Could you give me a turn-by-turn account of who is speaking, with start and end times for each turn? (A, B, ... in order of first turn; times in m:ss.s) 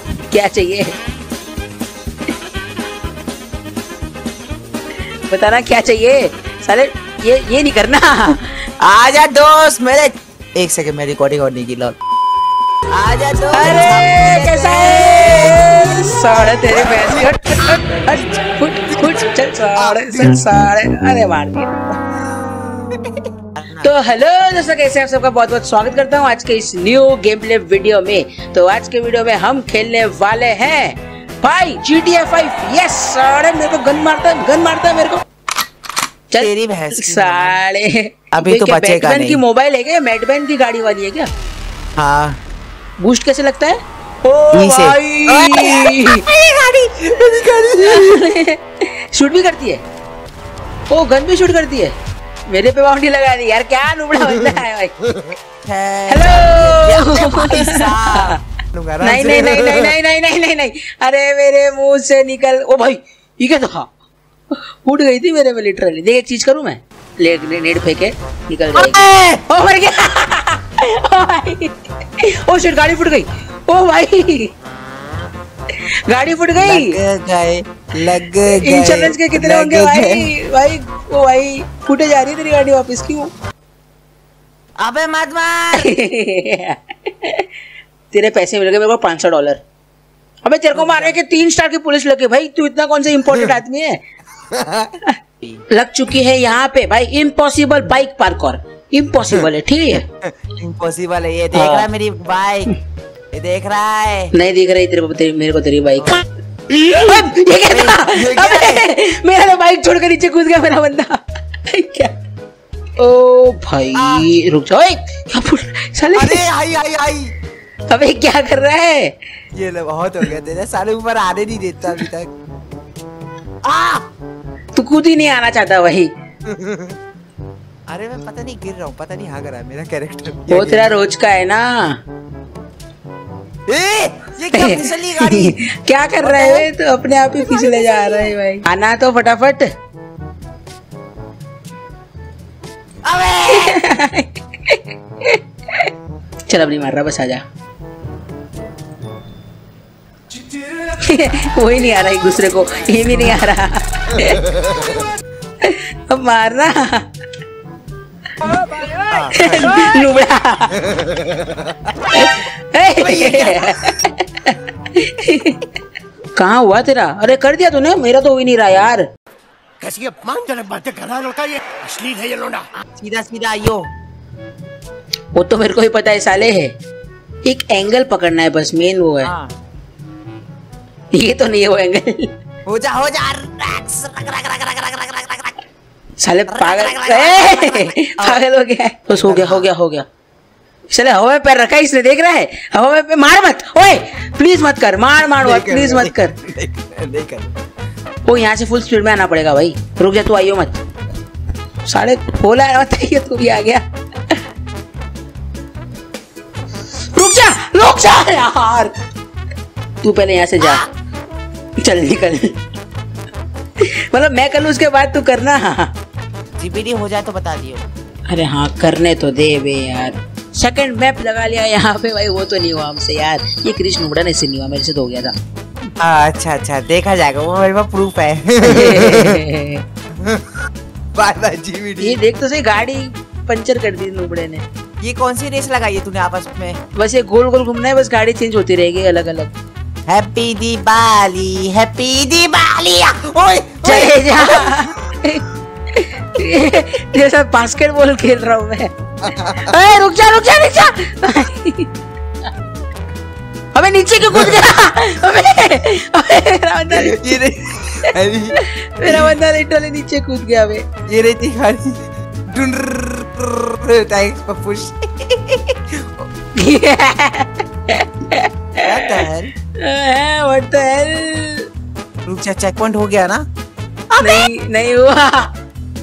0:00.3-0:01.0 A
0:05.3-0:08.6 A
0:08.8-0:12.0 B
0:12.9-0:17.2 B
0:13.5-0:21.8 A
0:19.8-0:20.4 B
0:23.5-0:23.9 B
0:23.8-0:35.2 A
0:36.3-0:41.3 A
0:36.4-0:37.6 B
0:38.3-0:39.4 B
0:42.0-0:42.4 B
0:43.0-0:46.2 A
0:44.5-0:48.2 B
0:47.2-0:49.8 A
0:50.9-0:52.0 A
0:52.5-0:55.0 A
0:55.2-0:59.9 B
0:56.1-0:58.4 A
0:59.0-1:03.9 A
1:04.5-1:14.5 A
1:08.7-1:09.4 B
1:15.7-1:17.0 A
1:16.6-1:20.3 B
1:18.0-1:23.3 A
1:24.8-1:25.9 B
1:25.7-1:27.5 A
1:28.1-1:29.6 A
1:30.4-1:34.0 A
1:30.7-1:31.2 B
1:34.5-1:34.9 B
1:35.7-1:40.0 A
1:39.3-1:42.7 B
1:41.5-1:41.9 A
1:43.3-1:44.3 B
1:44.3-1:46.3 A
1:46.7-1:48.8 B
1:46.9-1:52.1 A
1:53.0-1:56.4 A
1:53.9-1:54.3 B
1:56.1-1:57.3 B
1:57.9-1:59.2 A
1:59.5-2:02.3 B
2:03.6-2:04.0 B
2:04.8-2:06.1 A
2:06.5-2:07.0 B
2:07.9-2:10.9 B
2:10.5-2:12.0 A
2:13.7-2:15.6 B
2:14.5-2:19.6 A
2:16.2-2:16.7 B
2:17.4-2:18.3 B
2:23.0-2:23.8 B
2:23.5-2:25.9 A
2:26.5-2:27.4 A
2:31.0-2:34.6 A
2:35.6-2:37.0 A
2:39.1-2:39.8 B
2:39.3-2:40.8 A
2:40.7-2:42.1 B
2:42.1-2:45.7 A
2:43.0-2:43.8 B
2:46.4-2:49.0 A
2:49.8-2:52.6 C
2:52.8-2:53.9 B
2:55.3-2:56.7 A
2:57.4-2:59.3 A
2:59.2-2:59.5 B
3:01.1-3:02.3 A
3:02.6-3:05.6 B
3:06.2-3:10.0 A
3:06.5-3:08.4 B
3:09.1-3:09.7 B
3:10.9-3:16.3 A
3:15.4-3:17.5 B
3:18.2-3:20.8 A
3:21.8-3:24.4 A
3:27.1-3:28.9 A
3:30.0-3:30.8 A
3:30.6-3:30.9 B
3:31.8-3:32.6 A
3:33.8-3:35.9 A
3:36.6-3:37.8 B
3:38.3-3:45.3 A
3:46.0-3:49.4 B
3:48.6-3:49.8 A
3:50.2-3:50.5 B
3:51.2-3:52.2 B
3:52.0-3:54.6 A
3:55.0-3:56.8 B
3:57.0-3:59.5 A
4:00.1-4:04.9 B
4:03.8-4:08.9 A
4:09.2-4:09.7 B
4:09.5-4:11.9 A
4:13.7-4:17.4 A
4:14.3-4:14.6 B
4:16.9-4:19.3 B
4:18.1-4:20.8 A
4:21.1-4:26.1 B
4:26.6-4:31.7 A
4:28.8-4:29.5 B
4:32.2-4:33.4 B
4:34.1-4:34.5 B
4:34.2-4:35.5 A